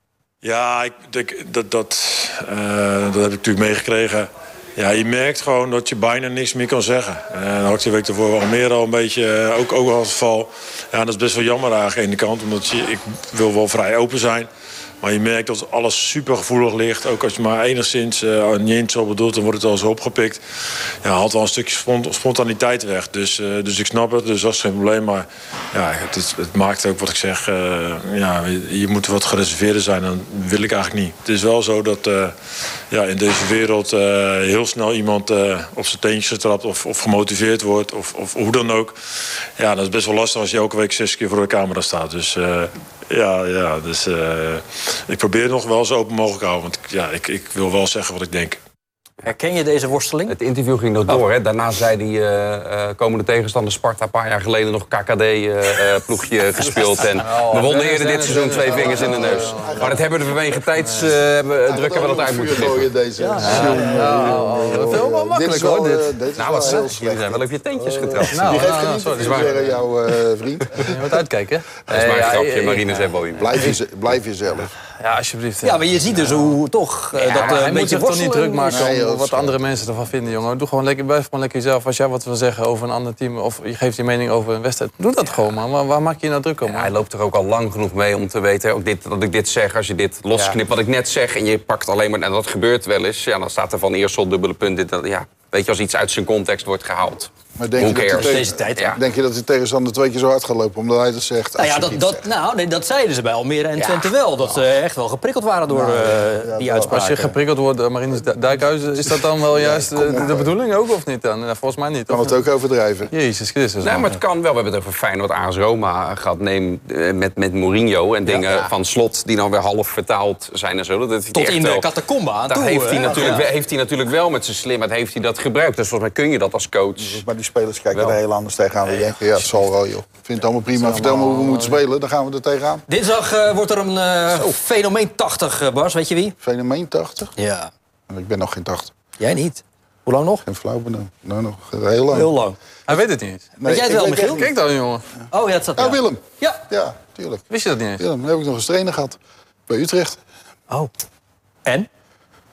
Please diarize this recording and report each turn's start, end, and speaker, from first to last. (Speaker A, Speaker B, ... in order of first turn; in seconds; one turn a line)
Speaker A: 0.4-14.5
Speaker A: 15.0-20.4
Speaker A: 21.0-32.3
Speaker A: 32.9-39.0
Speaker A: 39.6-48.6
Speaker B: 49.2-50.4
Speaker C: 50.3-62.9
Speaker D: 57.1-60.0
Speaker E: 58.2-60.0
Speaker D: 60.8-61.1
Speaker E: 61.6-70.9
Speaker B: 63.2-64.4
Speaker D: 63.4-66.8
Speaker C: 66.3-69.7
Speaker D: 68.3-69.7
Speaker D: 70.8-73.8
Speaker C: 71.9-73.7
Speaker E: 73.3-74.7
Speaker D: 75.0-76.6
Speaker B: 75.6-78.8
Speaker D: 77.2-86.9
Speaker C: 77.3-77.6
Speaker E: 78.7-80.2
Speaker C: 86.6-99.0
Speaker E: 90.3-90.6
Speaker E: 97.5-102.3
Speaker B: 98.0-98.9
Speaker B: 101.6-107.3
Speaker E: 105.7-107.4
Speaker D: 106.9-112.4
Speaker E: 109.0-110.5
Speaker E: 112.1-113.1
Speaker D: 113.1-114.0
Speaker C: 113.8-121.9
Speaker E: 118.2-118.7
Speaker B: 121.3-123.5
Speaker C: 122.5-127.2
Speaker E: 123.0-123.4
Speaker E: 127.0-132.8
Speaker D: 130.8-131.8
Speaker B: 132.9-136.3
Speaker E: 136.4-137.3
Speaker B: 137.3-137.7
Speaker E: 138.1-138.9
Speaker B: 139.2-140.4
Speaker E: 140.4-142.3
Speaker B: 142.1-142.6
Speaker D: 142.9-143.5
Speaker E: 143.6-144.5
Speaker B: 143.6-144.4
Speaker D: 144.3-145.0
Speaker B: 145.3-146.6
Speaker E: 145.8-147.4
Speaker D: 147.5-148.0
Speaker E: 148.0-150.2